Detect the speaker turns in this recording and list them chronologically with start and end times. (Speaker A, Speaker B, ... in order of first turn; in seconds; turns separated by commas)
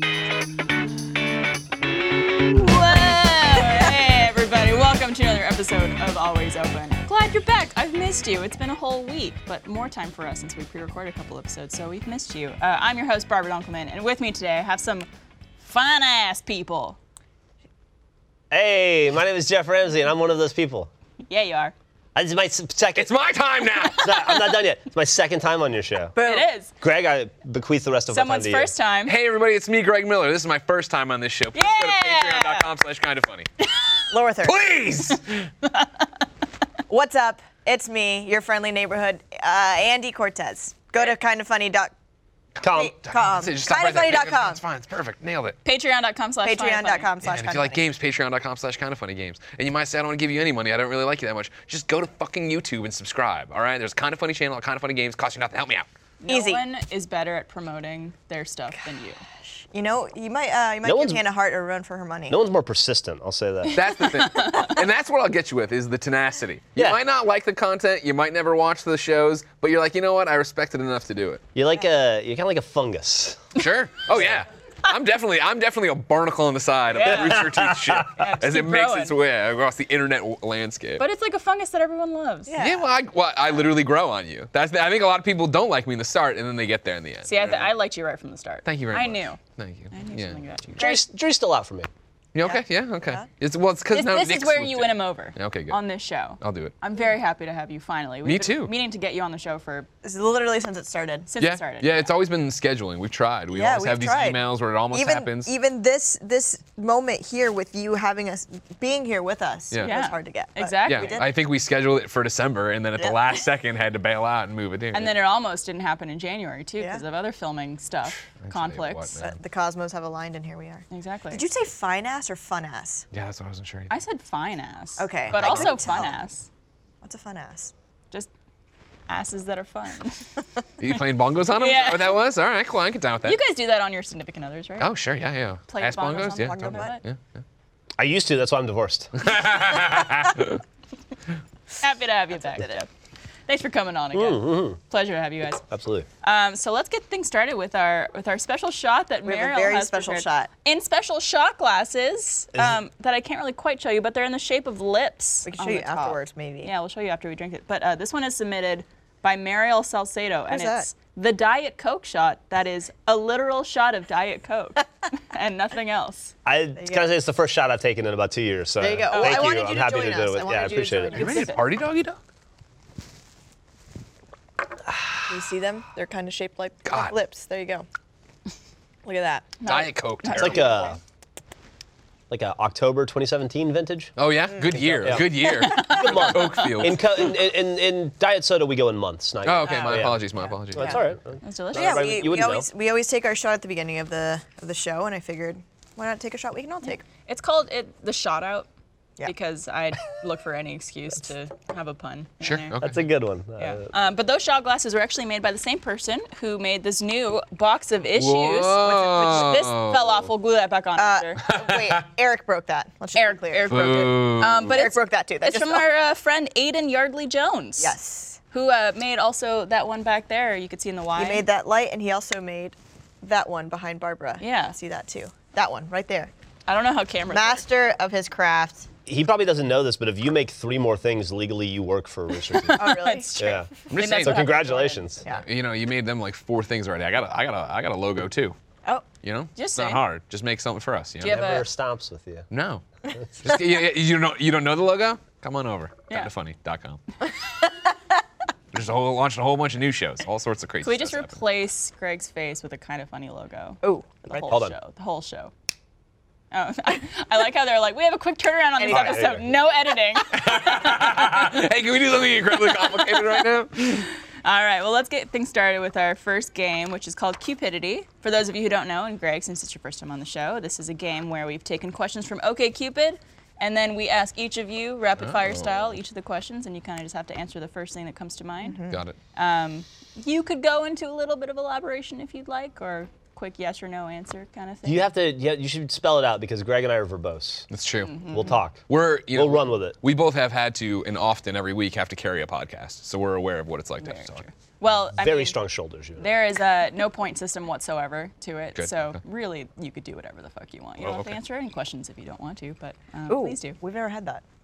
Speaker A: 2.4-15.1, Speaker A: 15.6-17.0, Speaker B: 18.5-20.9, Speaker A: 21.2-21.7, Speaker B: 22.1-23.1, Speaker C: 22.9-24.3, Speaker B: 23.9-26.1, Speaker A: 26.1-26.7, Speaker D: 26.2-26.4, Speaker B: 26.8-28.7, Speaker A: 28.1-29.1, Speaker C: 29.1-33.5, Speaker A: 31.5-32.7, Speaker A: 33.6-34.0, Speaker D: 34.1-34.6, Speaker C: 34.4-35.5, Speaker D: 36.9-41.9, Speaker B: 42.6-43.0, Speaker D: 42.7-44.6, Speaker C: 43.0-45.6, Speaker A: 45.6-47.1, Speaker D: 46.4-47.9, Speaker C: 47.2-55.9, Speaker A: 56.2-59.2, Speaker D: 56.3-56.6, Speaker D: 59.7-62.4, Speaker B: 60.8-61.2, Speaker B: 62.3-63.8, Speaker C: 63.7-71.4, Speaker A: 63.7-64.8, Speaker B: 71.5-73.6, Speaker C: 73.5-81.0, Speaker B: 74.1-74.4, Speaker A: 76.9-77.5, Speaker B: 77.0-78.2, Speaker A: 78.1-79.1, Speaker A: 81.0-82.5, Speaker D: 82.5-82.9, Speaker C: 82.6-87.7, Speaker A: 87.2-89.4, Speaker C: 88.6-90.4, Speaker A: 89.9-91.0, Speaker B: 90.8-91.9, Speaker C: 92.3-95.8, Speaker D: 92.4-93.2, Speaker A: 93.9-99.9, Speaker C: 96.4-96.7, Speaker C: 98.2-98.7, Speaker D: 100.0-101.3, Speaker A: 101.3-102.1, Speaker C: 101.4-105.5, Speaker D: 103.5-111.3, Speaker A: 109.8-111.3, Speaker C: 110.8-115.2, Speaker D: 113.0-113.3, Speaker A: 114.9-119.2, Speaker C: 118.2-119.4, Speaker D: 119.2-123.0, Speaker A: 120.9-121.4, Speaker C: 123.1-123.9, Speaker A: 123.9-126.5, Speaker D: 125.0-126.1, Speaker C: 125.3-126.0, Speaker D: 127.0-127.7, Speaker A: 129.1-130.3, Speaker C: 130.8-133.4, Speaker A: 131.5-132.2, Speaker A: 133.2-134.9, Speaker C: 134.8-137.2, Speaker A: 135.7-137.0, Speaker D: 136.3-137.0, Speaker B: 138.0-139.3, Speaker C: 139.2-140.6, Speaker A: 141.8-142.9, Speaker A: 143.5-145.6, Speaker B: 144.1-144.8, Speaker B: 145.7-146.1, Speaker A: 146.2-166.3, Speaker D: 149.2-150.5, Speaker D: 155.4-156.7, Speaker D: 160.5-160.9, Speaker B: 166.4-171.3, Speaker D: 166.8-167.1, Speaker D: 168.8-171.5, Speaker A: 169.1-169.5, Speaker A: 171.1-171.6, Speaker C: 171.1-172.2, Speaker D: 175.3-177.8, Speaker C: 176.8-177.2, Speaker D: 179.0-179.5, Speaker A: 179.6-181.0, Speaker C: 179.7-180.7, Speaker B: 180.3-181.0, Speaker B: 182.3-184.1, Speaker C: 184.2-187.0, Speaker B: 184.7-192.7, Speaker A: 185.4-186.9, Speaker C: 189.4-191.1, Speaker A: 189.6-190.1, Speaker A: 191.4-192.4, Speaker D: 191.7-197.0, Speaker A: 196.8-198.7, Speaker A: 199.2-202.8, Speaker C: 202.4-203.0, Speaker B: 202.8-203.9, Speaker A: 203.6-211.4, Speaker C: 208.1-210.3, Speaker D: 208.8-209.7, Speaker D: 211.0-213.9, Speaker C: 211.5-212.0, Speaker A: 213.1-217.9, Speaker C: 213.7-214.7, Speaker D: 214.6-215.8, Speaker D: 217.8-218.4, Speaker A: 218.5-221.4, Speaker D: 221.2-226.3, Speaker A: 224.4-224.8, Speaker A: 226.7-227.6, Speaker D: 227.3-228.9, Speaker B: 229.1-235.2, Speaker A: 232.4-235.0, Speaker D: 232.7-233.4, Speaker C: 233.9-234.6, Speaker C: 235.4-238.6, Speaker C: 239.2-241.4, Speaker A: 239.6-240.0, Speaker A: 241.2-241.7, Speaker B: 241.2-242.5, Speaker C: 242.5-242.8, Speaker C: 243.4-247.0, Speaker C: 248.7-251.4, Speaker A: 250.8-255.5, Speaker D: 253.8-254.6, Speaker B: 254.5-254.7, Speaker A: 256.5-261.1, Speaker D: 258.8-259.4, Speaker B: 258.9-259.5, Speaker C: 260.3-264.1, Speaker A: 262.9-263.5, Speaker A: 264.4-278.8, Speaker C: 275.2-275.8, Speaker D: 278.6-279.0, Speaker C: 278.9-279.2, Speaker A: 279.3-285.1, Speaker B: 284.8-287.7, Speaker C: 287.7-288.2, Speaker A: 288.0-288.5, Speaker B: 288.2-290.0, Speaker C: 288.9-294.4, Speaker A: 294.0-295.6, Speaker B: 295.2-296.4, Speaker A: 296.2-303.8, Speaker C: 298.8-299.2, Speaker C: 301.0-301.3, Speaker D: 303.3-304.4